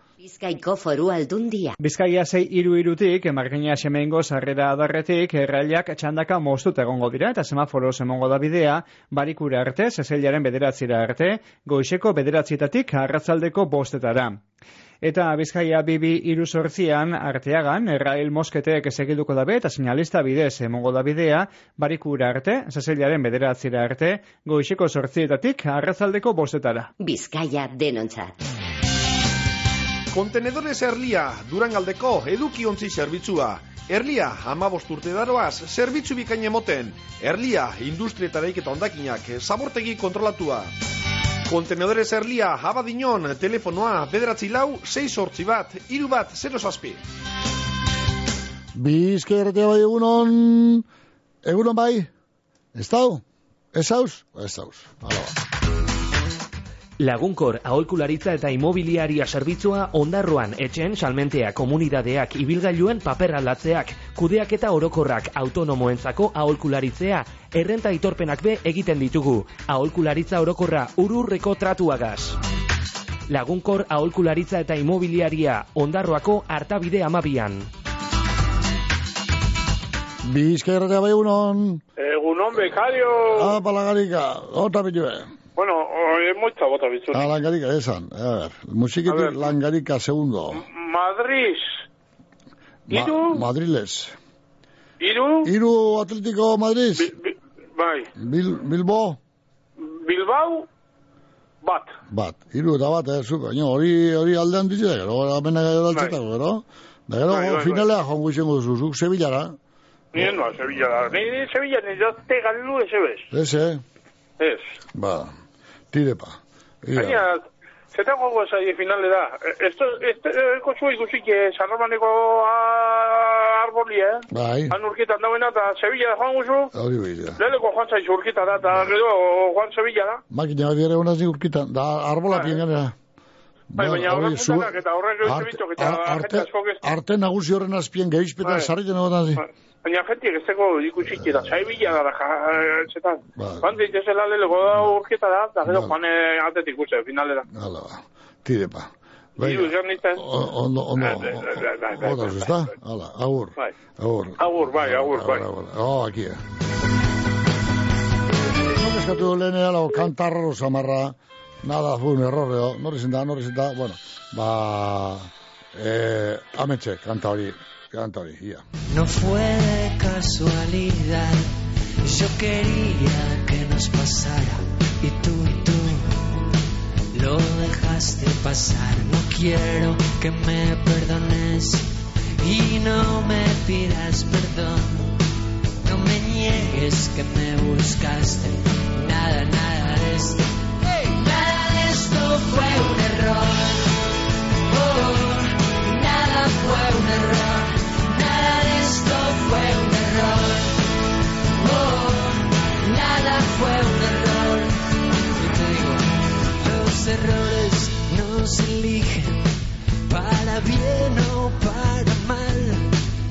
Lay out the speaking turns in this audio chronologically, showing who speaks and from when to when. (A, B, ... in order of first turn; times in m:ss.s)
0:00.2-0:01.8 A
0:01.8-0:14.4 B
0:15.0-0:26.9 B
0:27.0-0:28.3 A
0:30.1-0:40.7 C
0:41.5-0:47.0 C
0:48.8-0:50.8 D
0:51.4-0:52.1 D
0:52.8-0:55.3 D
0:57.0-1:12.4 E
1:13.3-1:17.7 E
1:20.2-1:21.8 D
1:22.0-1:23.5 F
1:23.3-1:25.3 D
1:25.6-1:27.3 F
1:27.1-1:30.6 D
1:29.1-1:29.5 F
1:30.6-1:31.7 F
1:32.9-1:34.2 D
1:32.9-1:33.4 F
1:35.0-1:35.5 F
1:35.4-1:37.1 D
1:37.0-1:38.1 F
1:38.2-1:39.2 D
1:39.8-1:40.7 F
1:41.6-1:42.0 F
1:42.1-1:49.6 D
1:47.3-1:47.9 F
1:50.1-1:53.3 F
1:53.3-1:53.8 D
1:54.4-1:54.8 F
1:54.9-1:55.3 D
1:55.9-1:57.3 D
1:57.0-2:06.7 F
2:04.3-2:04.8 D
2:06.7-2:07.4 D
2:07.4-2:10.2 F
2:10.3-2:13.0 D
2:13.8-2:19.4 D
2:13.8-2:16.8 F
2:19.4-2:27.5 F
2:23.4-2:23.8 D
2:25.7-2:26.0 D
2:27.5-2:36.4 D
2:29.4-2:30.3 F
2:31.0-2:32.5 F
2:34.4-2:35.4 F
2:38.6-2:48.6 D
2:48.9-2:51.5 G
2:52.0-2:56.3 G
2:57.1-3:05.2 G
3:05.8-3:13.9 G
3:14.7-3:20.9 G
3:21.6-3:29.4 G
3:30.1-3:32.9 G